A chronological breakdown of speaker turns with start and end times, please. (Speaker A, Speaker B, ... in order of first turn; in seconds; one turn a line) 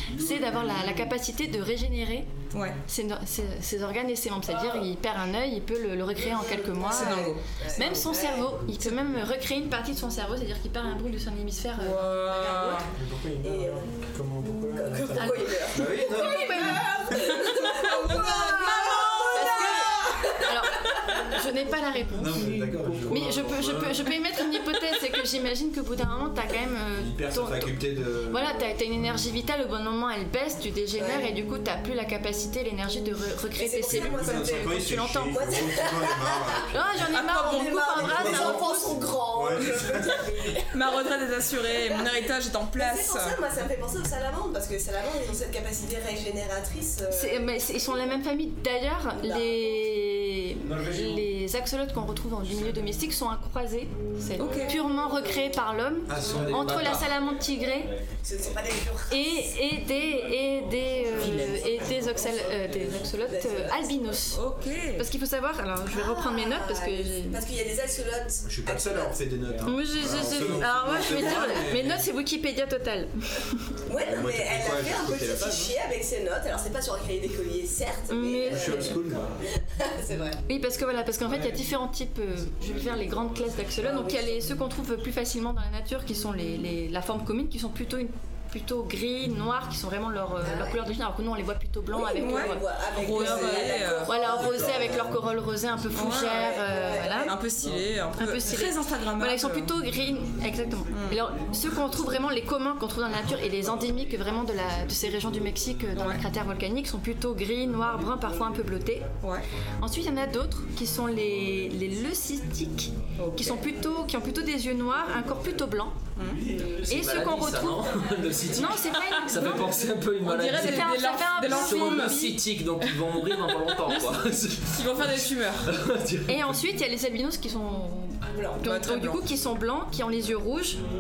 Speaker A: 0.1-2.3
Speaker B: 2.5-2.8
Speaker A: 2.9-12.9
Speaker C: 6.2-8.5
Speaker B: 6.9-7.4
Speaker B: 11.8-12.9
Speaker D: 12.9-16.9
Speaker C: 13.4-13.9
Speaker C: 14.7-21.0
Speaker A: 15.2-17.3
Speaker B: 17.5-19.8
Speaker A: 19.3-27.8
Speaker D: 22.2-24.0
Speaker D: 26.9-28.6
Speaker A: 28.3-35.5
Speaker C: 31.0-31.3
Speaker C: 33.6-36.7
Speaker D: 33.9-37.0
Speaker A: 36.7-39.0
Speaker B: 37.1-37.9
Speaker C: 37.2-41.0
Speaker D: 38.0-40.4
Speaker B: 40.7-43.4
Speaker C: 42.8-47.9
Speaker A: 47.1-57.9
Speaker C: 49.2-49.5
Speaker B: 54.4-54.8
Speaker C: 54.5-55.4
Speaker D: 56.1-57.1
Speaker C: 58.2-59.5
Speaker A: 59.1-64.4
Speaker B: 61.1-61.6
Speaker C: 61.3-64.0
Speaker B: 64.3-65.0
Speaker A: 65.0-67.4
Speaker C: 65.9-69.2
Speaker D: 68.5-72.0
Speaker A: 69.7-73.1
Speaker C: 73.9-79.0
Speaker D: 74.0-75.8
Speaker A: 78.1-79.0
Speaker D: 78.5-79.4
Speaker C: 79.6-80.4
Speaker A: 80.5-97.4
Speaker C: 83.8-84.4
Speaker C: 90.4-90.8
Speaker C: 91.9-95.0
Speaker B: 92.2-94.1
Speaker B: 95.9-96.5
Speaker C: 96.1-97.3
Speaker B: 97.2-99.7
Speaker A: 98.2-109.1
Speaker B: 100.9-101.2
Speaker B: 105.9-106.2
Speaker A: 109.8-116.0
Speaker B: 113.2-113.6
Speaker B: 116.2-116.4
Speaker E: 116.4-126.5
Speaker C: 116.5-116.8
Speaker A: 116.9-119.8
Speaker B: 119.0-119.5
Speaker B: 120.2-122.2
Speaker A: 120.4-122.4
Speaker B: 123.4-124.0
Speaker B: 124.7-125.7
Speaker A: 126.3-130.8
Speaker C: 128.3-128.6
Speaker B: 128.6-129.2